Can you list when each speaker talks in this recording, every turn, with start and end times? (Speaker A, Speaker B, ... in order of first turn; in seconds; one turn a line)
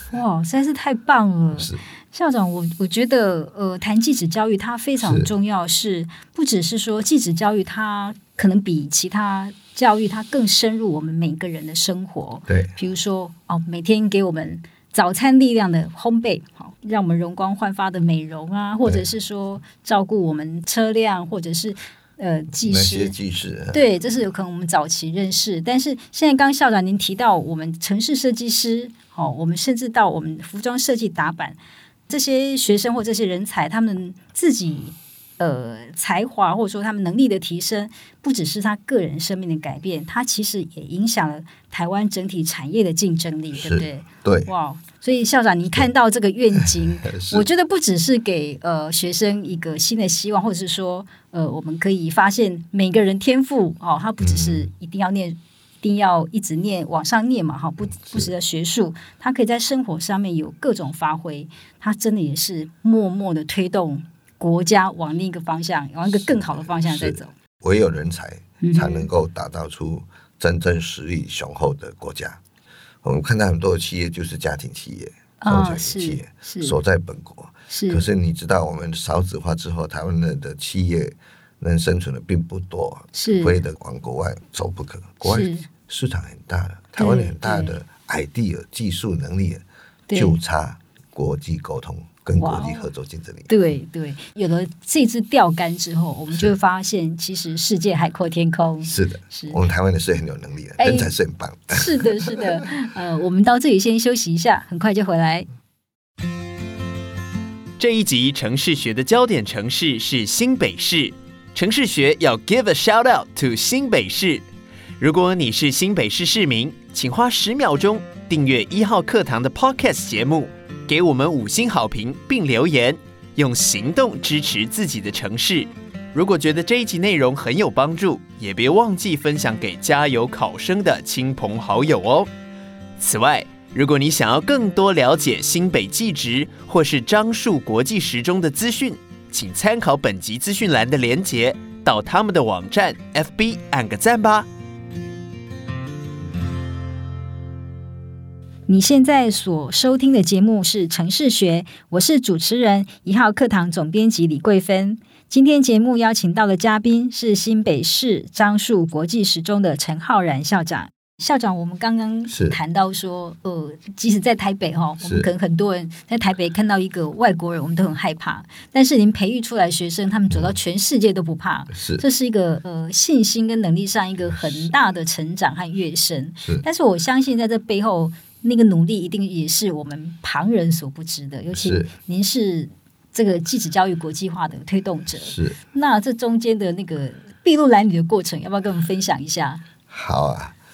Speaker A: 0.1-23.1
Speaker B: 1.5-1.8
Speaker B: 5.0-5.3
Speaker B: 12.5-12.7
Speaker B: 22.6-23.8
Speaker A: 23.7-67.3
Speaker B: 43.5-44.5
Speaker B: 46.6-47.5
Speaker B: 54.2-54.7
Speaker B: 57.9-58.3
Speaker B: 66.1-72.4
Speaker A: 68.6-69.1
Speaker B: 73.0-89.6
Speaker A: 75.4-76.8
Speaker A: 77.7-78.0
Speaker A: 83.1-83.6
Speaker A: 85.2-85.7
Speaker A: 87.0-87.7
Speaker A: 90.1-90.4
Speaker B: 90.1-93.5
Speaker A: 92.4-92.9
Speaker A: 93.5-99.6
Speaker B: 98.8-102.5
Speaker A: 100.8-101.1
Speaker A: 101.7-105.5
Speaker C: 107.8-114.4
Speaker C: 115.0-132.3
Speaker C: 133.0-144.5
Speaker A: 148.7-189.6
Speaker B: 162.3-162.6
Speaker B: 165.0-165.3
Speaker B: 171.7-172.0
Speaker B: 174.3-174.7
Speaker B: 181.5-181.9
Speaker B: 185.2-185.6
Speaker B: 189.9-190.6